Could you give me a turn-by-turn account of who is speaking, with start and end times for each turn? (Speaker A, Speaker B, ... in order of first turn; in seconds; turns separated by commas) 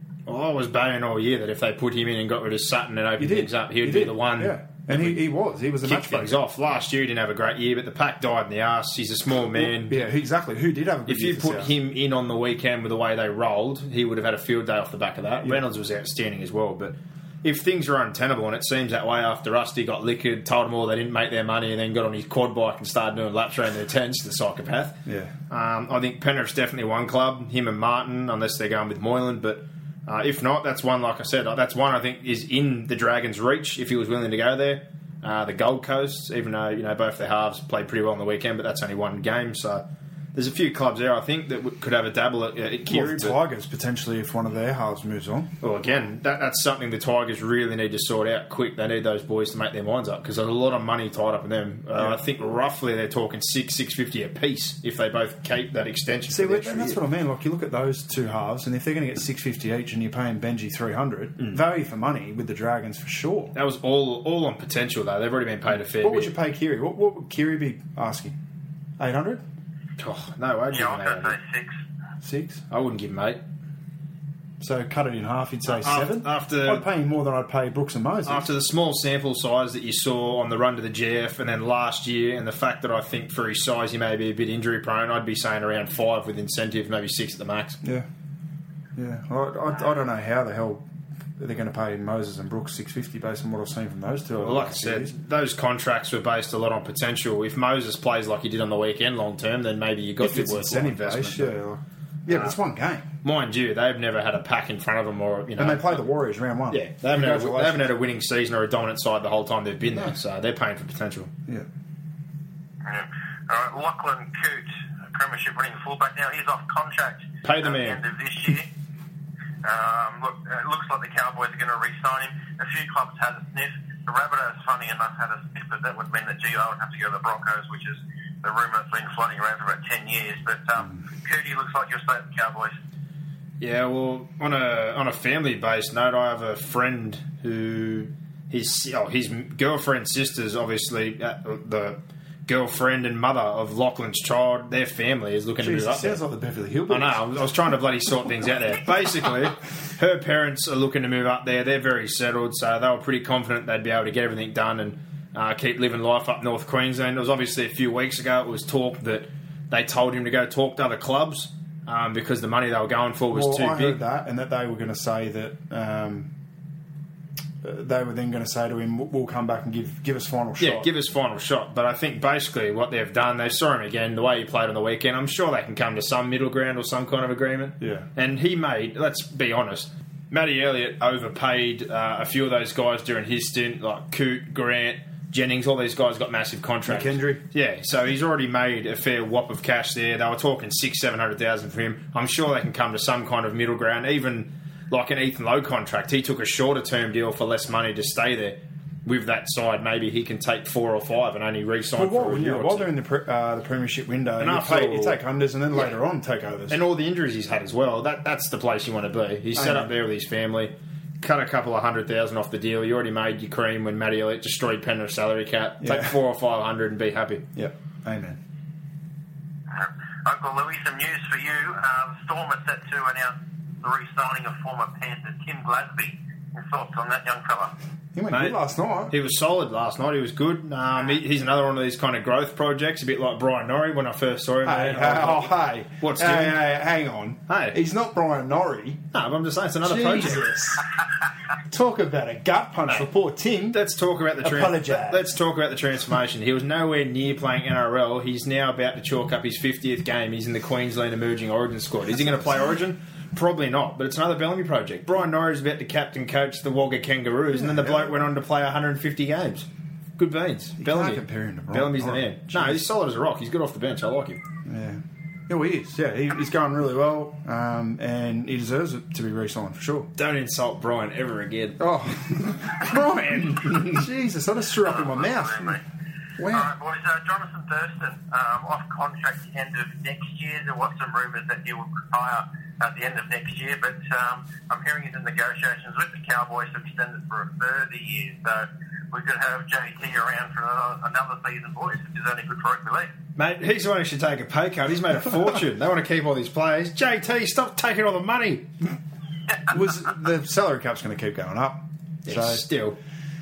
Speaker A: 0.3-5.2, Speaker B: 3.2-6.3, Speaker A: 5.8-10.0, Speaker B: 9.5-11.7, Speaker A: 11.1-43.4, Speaker B: 25.1-25.3, Speaker B: 42.9-45.5, Speaker A: 45.6-57.0, Speaker B: 56.3-63.5, Speaker A: 63.5-66.3, Speaker B: 65.9-68.4, Speaker B: 69.0-69.4, Speaker A: 70.0-71.4, Speaker C: 70.7-71.8, Speaker B: 72.2-72.6, Speaker A: 72.7-73.4, Speaker B: 74.6-78.5, Speaker A: 75.7-76.8, Speaker A: 78.2-87.8, Speaker B: 87.8-88.1, Speaker B: 89.0-90.8, Speaker B: 91.4-95.1, Speaker A: 94.4-101.5, Speaker B: 100.2-103.0, Speaker A: 103.2-106.0, Speaker B: 105.6-107.9, Speaker A: 106.7-111.3, Speaker B: 109.8-110.1, Speaker C: 112.8-118.7, Speaker A: 117.4-118.0, Speaker C: 119.6-132.7, Speaker A: 133.6-146.2, Speaker B: 145.6-147.2, Speaker A: 146.9-164.0, Speaker B: 163.3-166.3, Speaker B: 167.6-170.9, Speaker A: 170.6-202.9, Speaker B: 177.8-178.1, Speaker B: 186.8-187.4, Speaker B: 201.9-206.8, Speaker A: 204.4-205.2, Speaker A: 206.7-217.4, Speaker B: 209.5-209.9, Speaker B: 215.8-216.1, Speaker B: 217.5-218.4, Speaker C: 219.7-227.7, Speaker B: 228.1-229.1, Speaker A: 228.3-228.6, Speaker A: 229.1-236.6, Speaker B: 234.6-239.0, Speaker A: 237.5-237.8, Speaker A: 239.1-240.5, Speaker B: 239.8-240.8, Speaker B: 241.7-243.8, Speaker A: 243.7-259.7, Speaker B: 244.4-245.3, Speaker B: 252.1-252.6, Speaker B: 257.5-258.2, Speaker A: 260.2-264.4, Speaker B: 260.8-262.8, Speaker B: 264.6-270.1, Speaker A: 270.1-271.8, Speaker B: 271.8-275.8, Speaker C: 274.8-275.8, Speaker B: 276.4-276.7, Speaker C: 276.5-293.1, Speaker A: 293.4-298.7, Speaker B: 299.7-302.6, Speaker A: 302.2-303.0